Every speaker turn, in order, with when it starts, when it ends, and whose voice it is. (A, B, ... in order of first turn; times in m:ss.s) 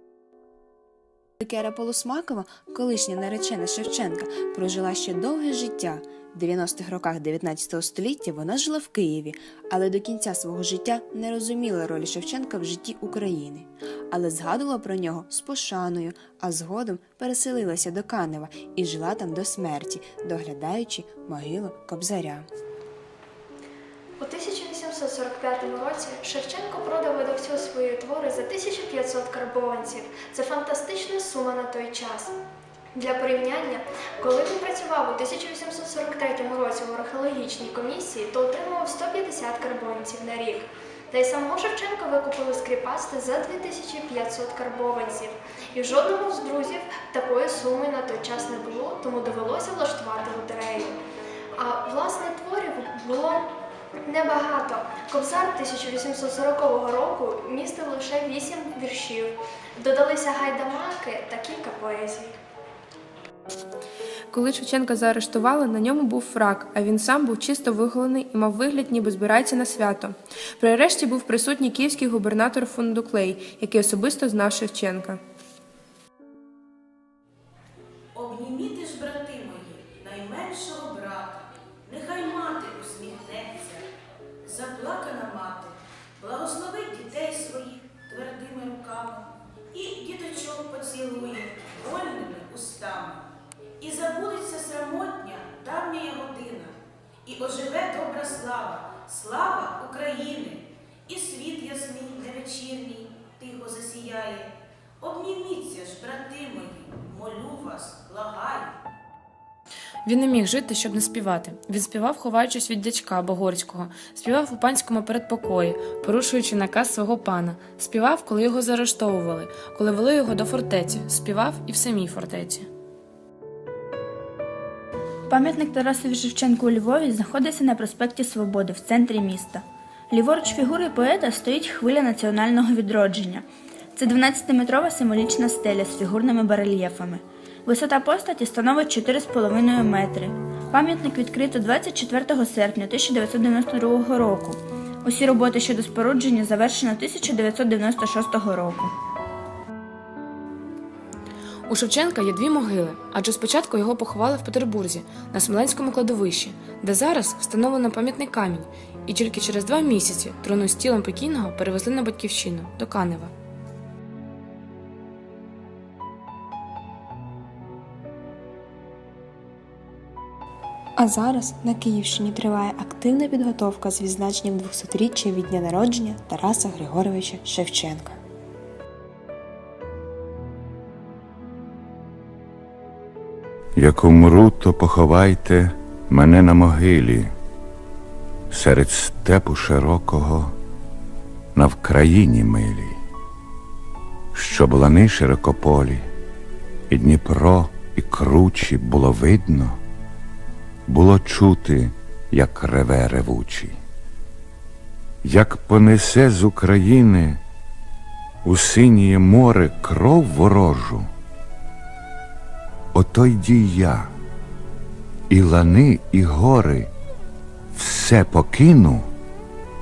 0:01.4-0:22.4 A
0:24.2-0:32.4 B
0:32.9-0:51.0 B
0:51.6-0:53.5 B
0:54.0-1:02.3 B
1:04.3-1:15.2 C
1:18.1-1:23.8 D
1:24.4-1:33.2 D
1:33.8-1:36.7 D
1:37.2-1:48.7 D
1:50.0-2:02.6 E
2:05.3-2:13.4 F
2:14.0-2:28.9 F
2:31.7-2:43.3 E
2:51.0-2:58.2 A
3:03.8-3:07.3 G
3:08.5-3:10.5 G
3:11.5-3:13.0 G
3:14.3-3:16.0 G
3:16.9-3:19.8 G
3:20.9-3:23.8 G
3:25.2-3:27.4 G
3:28.4-3:31.1 G
3:32.9-3:34.1 G
3:35.3-3:36.9 G
3:37.7-3:39.0 G